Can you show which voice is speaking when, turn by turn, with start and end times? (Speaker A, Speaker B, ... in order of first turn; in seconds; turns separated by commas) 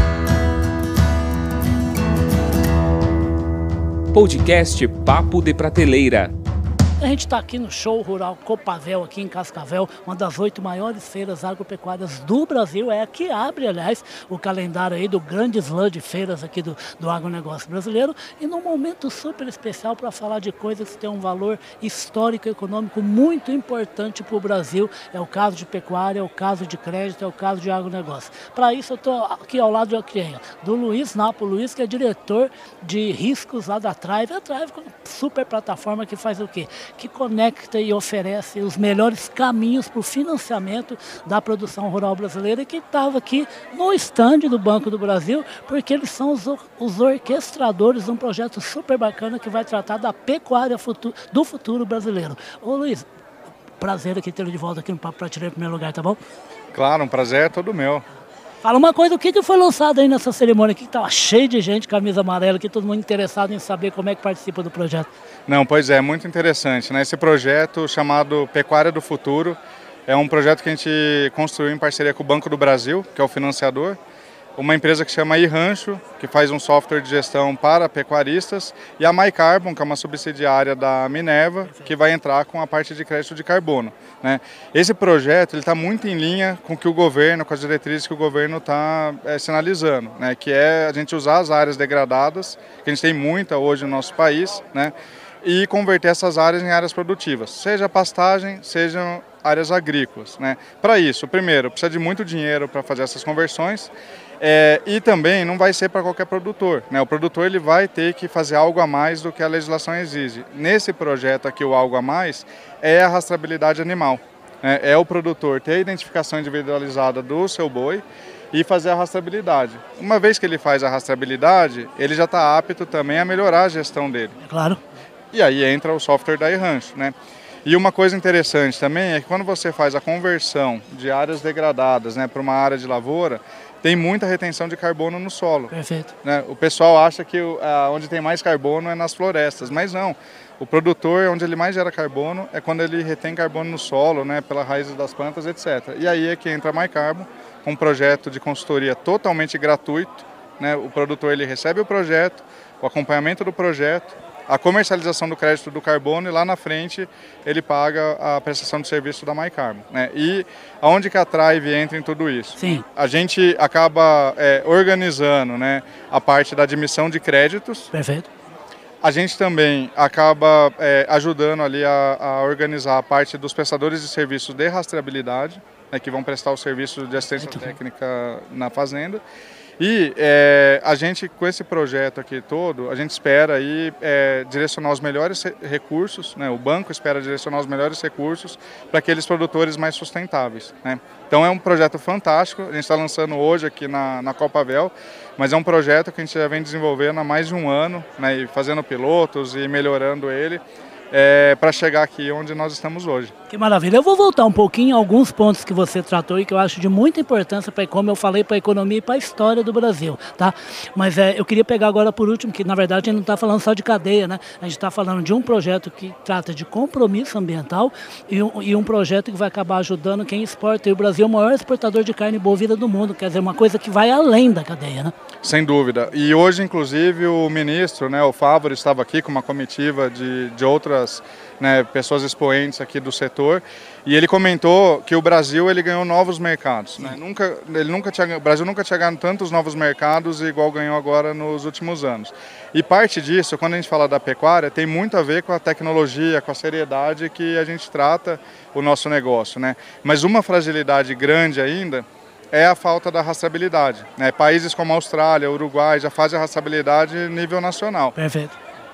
Speaker A: 4.1-6.3, Speaker B: 7.0-53.1, Speaker B: 53.8-56.2, Speaker C: 56.7-58.0, Speaker B: 58.6-65.1, Speaker C: 65.5-74.0, Speaker C: 74.6-124.4, Speaker B: 124.4-124.8, Speaker C: 125.3-127.1, Speaker C: 127.7-135.7, Speaker B: 135.7-136.1, Speaker C: 136.2-167.9, Speaker B: 162.6-162.8, Speaker B: 167.9-168.3, Speaker C: 169.0-179.2, Speaker C: 179.8-203.3, Speaker B: 203.5-225.1, Speaker C: 225.4-258.1, Speaker B: 258.2-258.6